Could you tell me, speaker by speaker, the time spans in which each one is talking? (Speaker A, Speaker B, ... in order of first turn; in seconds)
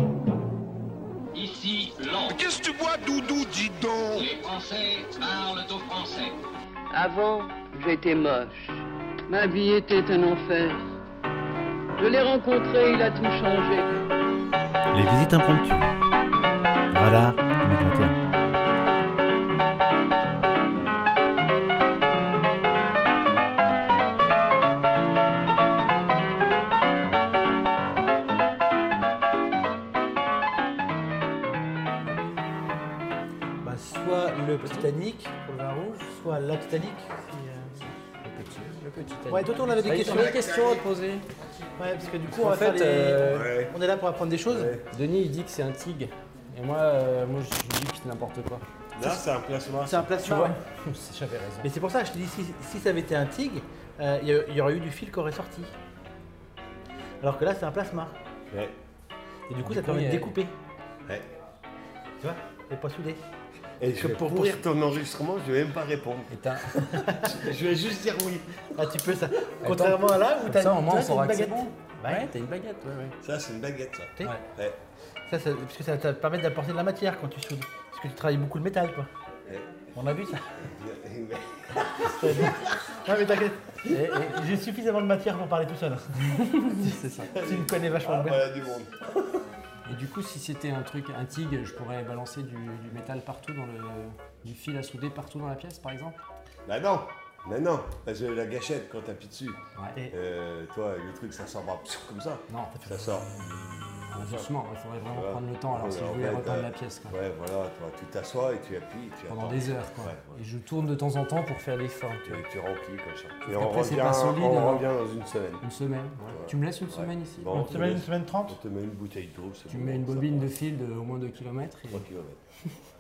Speaker A: 1.3-2.4, 4.1-6.4
Speaker B: 2.2-4.3
Speaker C: 6.9-10.8, 12.0-13.9
Speaker D: 14.9-15.9, 16.9-18.2
Speaker E: 33.6-37.9, 39.3-40.4, 41.8-44.7, 49.9-50.6, 51.6-55.7, 57.2-58.1, 59.5-60.5, 62.2-63.2, 64.0-64.6, 68.8-72.3, 75.3-79.1, 79.9-80.5, 82.0-86.4, 86.9-88.5, 117.6-118.6
Speaker F: 38.2-41.3, 42.3-43.5, 44.9-48.6, 50.2-51.7, 59.6-60.4, 66.3-66.9, 69.6-73.2, 83.9-84.5, 86.5-87.3, 89.8-96.2, 99.8-100.0, 102.5-102.8, 104.1-107.2, 109.3-112.4, 113.5-114.9, 115.6-118.0, 119.7-122.1
Speaker G: 40.1-40.8, 43.2-43.8, 44.5-44.9, 49.0-50.1, 58.5-58.8, 63.8-68.9, 73.2-74.8, 79.5-79.9, 80.6-82.5, 87.3-89.5, 96.7-104.5, 105.1-110.5, 112.3-115.7, 116.3-120.5, 121.9-122.4